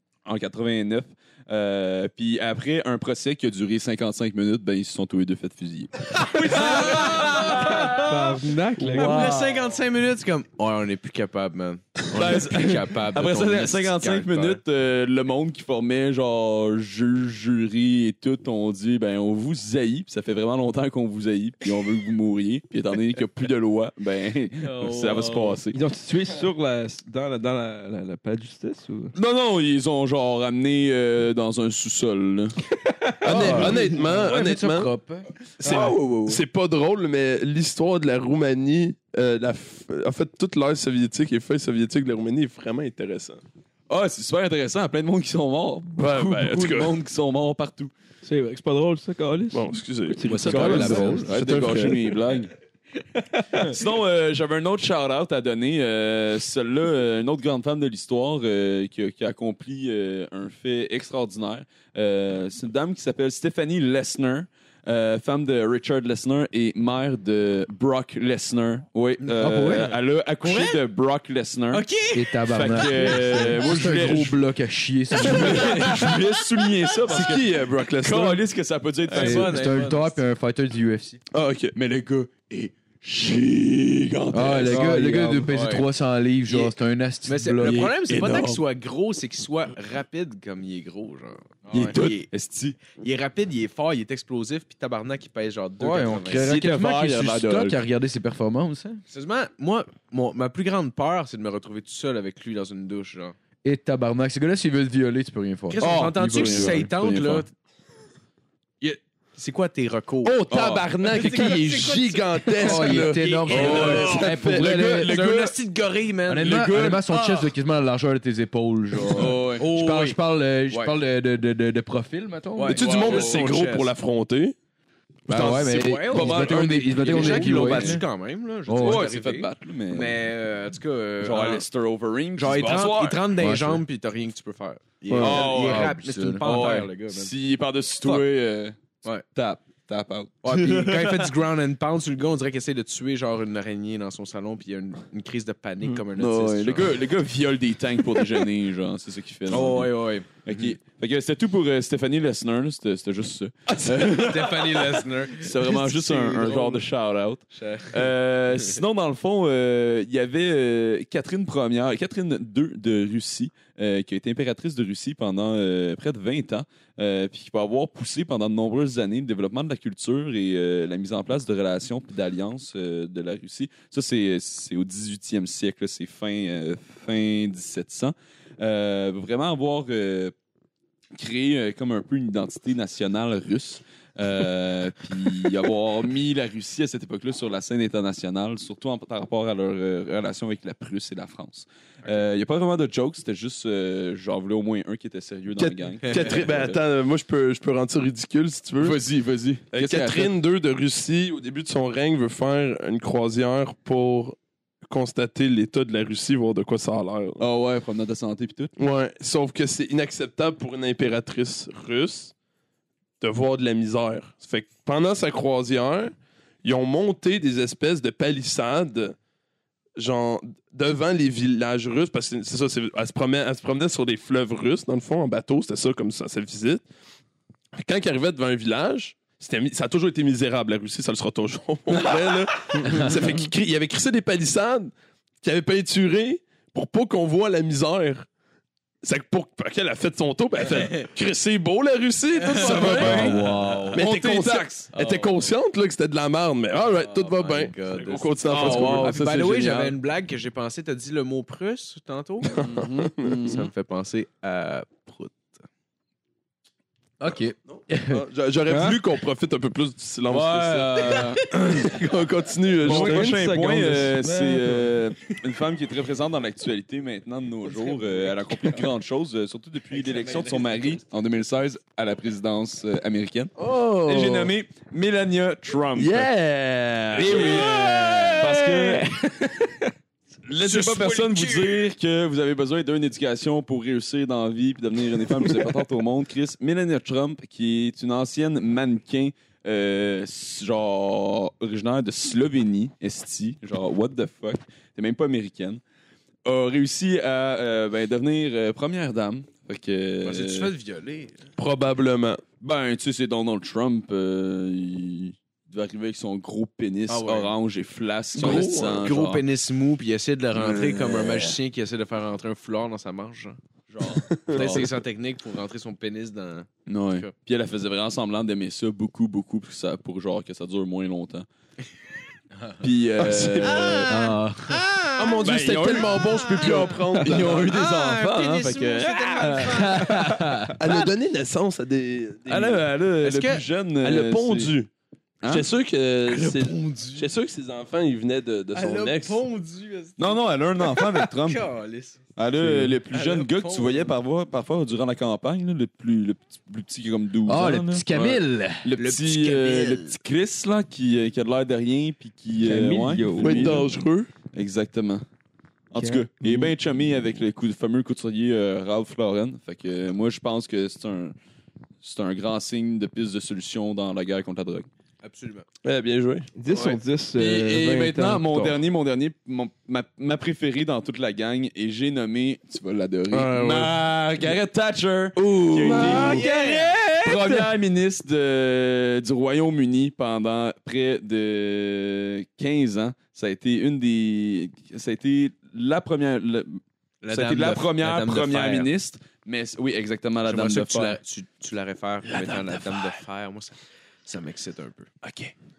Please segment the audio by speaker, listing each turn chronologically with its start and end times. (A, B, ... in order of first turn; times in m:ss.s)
0:00.2-0:08.2 A
0:06.5-0:07.9 B
0:07.4-0:09.3 C
0:08.8-0:09.6 A
0:08.9-0:14.6 B
0:12.2-0:25.8 A
0:24.6-0:25.6 D
0:25.7-0:29.1 C
0:29.2-0:32.6 A
0:32.9-0:34.0 C
0:33.2-0:34.9 E
0:33.3-0:35.9 D
0:35.6-0:43.4 E
0:35.6-0:36.0 C
0:35.7-0:36.1 A
0:43.9-0:47.9 A
0:46.0-0:47.0 E
0:48.2-0:52.2 C
0:49.5-0:52.1 E
0:50.3-0:51.4 D
0:50.5-0:52.5 A
0:53.2-0:53.8 C
0:53.6-1:11.9 A
1:09.2-1:10.8 B
1:09.4-1:09.9 D
1:11.7-1:12.3 B
1:12.1-1:16.1 D
1:12.5-1:14.4 A
1:15.2-1:19.5 A
1:15.3-1:16.2 B
1:17.1-1:18.4 E
1:19.1-1:20.2 B
1:19.1-1:21.2 D
1:21.3-1:21.8 E
1:21.7-1:25.1 A
1:24.3-1:27.9 D
1:24.7-1:25.5 C
1:25.5-1:25.9 B
1:26.5-1:32.3 B
1:27.7-1:28.6 A
1:31.7-1:32.9 A
1:32.9-1:36.5 B
1:35.8-1:39.0 D
1:36.3-1:37.8 A
1:39.1-1:43.4 B
1:43.6-1:46.9 D
1:45.7-1:47.5 B
1:45.8-1:47.5 A
1:48.8-1:50.5 B
1:50.2-1:55.5 E
1:50.5-1:50.9 A
1:51.0-1:57.5 B
1:52.6-1:55.2 D
1:53.6-1:54.1 A
1:56.3-2:02.8 D
1:59.1-2:00.2 B
1:59.1-1:59.6 A
2:00.7-2:01.0 B
2:02.6-2:03.9 B
2:02.7-2:04.6 E
2:05.3-2:08.0 D
2:05.3-2:11.7 B
2:05.3-2:05.7 E
2:06.1-2:08.0 A
2:08.7-2:09.0 D
2:08.8-2:10.2 A
2:11.2-2:13.3 A
2:12.4-2:17.3 B
2:13.4-2:13.8 D
2:15.1-2:15.4 E
2:15.2-2:21.3 A
2:15.4-2:16.8 D
2:20.4-2:27.0 B
2:26.2-3:00.3 A
2:29.5-2:30.4 B
2:33.7-2:34.2 E
2:33.9-2:36.8 B
2:37.5-2:38.8 B
3:01.2-3:16.8 A
3:15.6-3:19.0 E
3:16.1-3:16.5 B
3:18.8-3:20.3 A
3:19.7-3:27.4 E
3:27.4-3:28.7 A
3:28.8-3:32.3 E
3:33.2-3:36.1 E
3:36.6-3:39.2 E
3:40.0-3:46.8 E
3:47.8-3:58.3 E
3:59.0-4:09.2 E
4:00.6-4:01.0 B
4:02.4-4:03.4 B
4:02.6-4:04.9 A
4:02.7-4:04.0 D
4:04.9-4:05.5 B
4:06.8-4:12.6 B
4:08.5-4:10.0 A
4:12.6-4:13.4 E
4:12.6-4:13.7 A
4:13.4-4:15.6 B
4:17.2-4:18.2 D
4:17.7-4:23.4 E
4:18.7-4:19.0 C
4:20.3-4:21.4 D
4:22.8-4:24.9 C
4:22.8-4:36.4 A
4:27.7-4:28.8 B
4:29.9-4:30.8 B
4:33.6-4:34.5 B
4:37.1-4:39.1 A
4:37.1-4:38.0 E
4:37.2-4:38.6 B
4:39.4-4:39.8 C
4:40.5-4:55.8 A
4:40.6-4:41.9 B
4:56.4-5:00.7 A
5:00.2-5:01.4 B
5:01.6-5:02.5 E
5:02.6-5:09.4 A
5:07.1-5:07.5 B
5:08.4-5:09.0 E
5:08.4-5:13.6 B
5:10.5-5:11.6 A
5:13.9-5:14.9 A
5:14.3-5:14.8 E
5:14.5-5:17.3 B
5:16.9-5:21.5 A
5:22.8-5:24.2 A
5:23.2-5:24.1 E
5:23.7-5:24.0 B
5:24.1-5:24.8 D
5:24.7-5:30.3 B
5:25.2-5:27.7 E
5:25.4-5:30.4 A
5:29.7-5:30.8 D
5:30.8-5:32.9 E
5:32.5-5:34.8 A
5:33.2-5:33.6 B
5:34.0-5:34.9 E
5:35.4-5:35.7 A
5:35.5-5:39.4 E
5:36.3-5:37.3 B
5:38.7-5:42.3 B
5:40.2-5:41.7 A
5:42.4-5:54.0 A
5:42.6-5:43.0 C
5:43.1-5:44.1 B
5:47.5-5:48.9 D
5:49.0-5:50.2 B
5:52.6-5:53.9 C
5:53.4-5:54.3 E
5:54.5-5:55.2 A
5:55.9-6:01.4 A
5:56.0-5:56.8 C
6:02.0-6:04.9 A
6:05.2-6:05.7 B
6:05.8-6:06.5 E
6:06.6-6:08.8 C
6:06.7-6:07.0 B
6:07.4-6:31.2 A
6:15.6-6:16.4 E
6:15.7-6:17.5 C
6:16.0-6:17.0 B
6:27.2-6:28.9 B
6:30.4-6:35.1 B
6:32.2-6:33.2 A